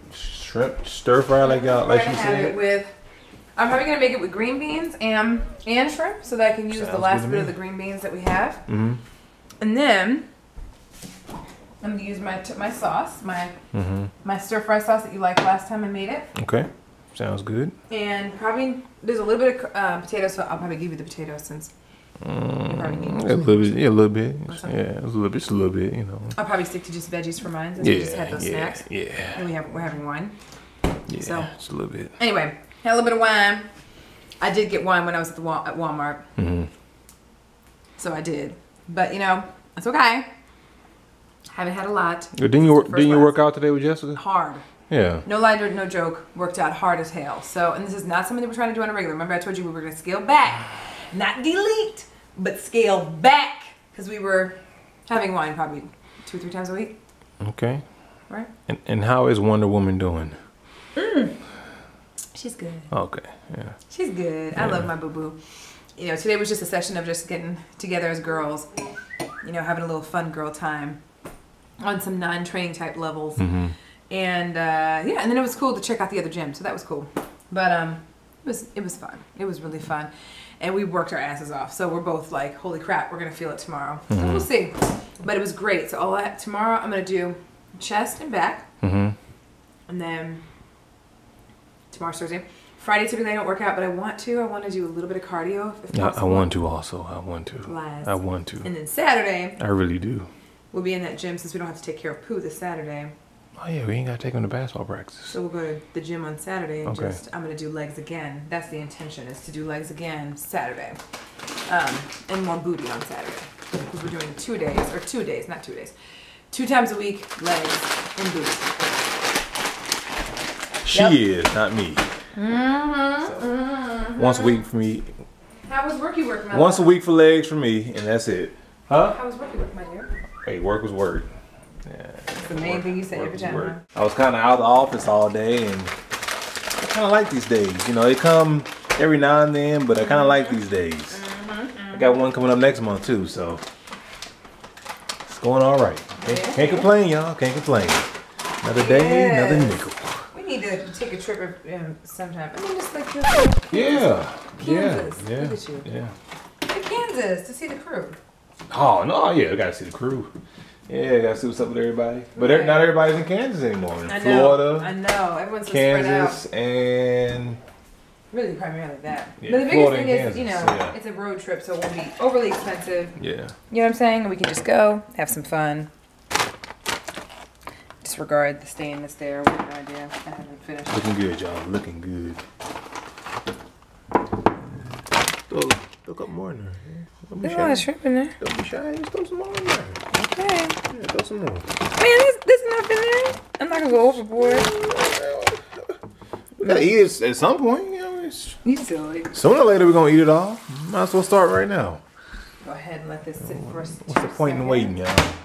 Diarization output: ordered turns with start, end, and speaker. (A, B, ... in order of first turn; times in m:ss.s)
0:00.1-0:02.6 A
0:01.4-0:02.9 B
0:03.6-0:08.6 B
0:06.7-0:07.5 A
0:08.7-0:09.0 A
0:09.6-0:10.3 B
0:11.8-0:13.5 B
0:13.7-0:14.1 A
0:14.2-0:16.3 B
0:16.3-0:17.7 A
0:17.9-0:21.7 B
0:22.2-0:26.4 A
0:22.6-0:23.9 B
0:24.4-0:24.8 B
0:26.3-0:30.4 B
0:27.8-0:29.5 A
0:31.1-0:32.2 A
0:31.2-0:31.5 B
0:32.2-0:33.7 B
0:34.4-0:36.2 B
0:36.4-0:36.7 A
0:38.0-0:40.3 B
0:41.5-0:43.4 B
0:42.4-0:44.2 A
0:44.2-0:44.6 B
0:44.9-0:45.2 A
0:45.2-0:57.0 B
0:57.4-0:57.8 A
0:58.7-1:00.4 A
1:00.9-1:01.4 B
1:02.3-1:02.9 B
1:02.9-1:03.8 A
1:03.9-1:05.4 B
1:04.6-1:04.8 A
1:06.0-1:08.7 B
1:09.4-1:11.0 B
1:11.8-1:13.5 B
1:13.4-1:13.7 A
1:14.1-1:28.7 B
1:24.1-1:24.5 A
1:28.8-1:29.2 A
1:29.9-1:30.4 B
1:31.9-1:36.6 B
1:35.9-1:38.7 A
1:37.6-1:39.6 B
1:39.6-1:40.3 A
1:40.7-1:43.1 B
1:43.6-1:45.3 A
1:45.3-1:51.0 B
1:46.8-1:47.2 A
1:51.7-1:55.9 B
1:56.5-1:58.8 B
2:00.8-2:02.1 A
2:00.9-2:01.2 B
2:02.3-2:04.6 B
2:04.2-2:05.1 A
2:05.7-2:06.9 B
2:06.5-2:09.2 A
2:09.0-2:10.1 B
2:10.4-2:11.3 A
2:11.8-2:15.9 A
2:12.3-2:13.8 B
2:16.8-2:21.2 A
2:20.0-2:20.6 B
2:21.1-2:22.2 B
2:21.9-2:23.6 A
2:25.3-2:28.1 A
2:26.2-2:26.9 B
2:28.6-2:30.2 A
2:28.7-2:35.8 B
2:33.7-2:36.1 A
2:36.7-2:38.2 B
2:38.7-2:40.3 A
2:40.9-2:44.9 A
2:42.3-2:42.9 B
2:44.0-2:46.4 B
2:45.7-2:47.6 A
2:48.3-2:53.2 B
2:49.4-2:51.0 A
2:53.2-2:53.6 A
2:53.7-2:55.9 B
2:58.0-3:01.1 B
3:00.9-3:02.4 A
3:05.5-3:07.9 A
3:07.4-3:08.3 B
3:08.4-3:10.1 A
3:10.1-3:10.8 B
3:10.8-3:11.7 A
3:11.9-3:14.7 B
3:14.2-3:15.7 A
3:16.6-3:18.6 A
3:16.6-3:16.9 B
3:18.6-3:19.3 B
3:19.3-3:22.0 A
3:22.6-3:24.9 B
3:23.4-3:25.3 A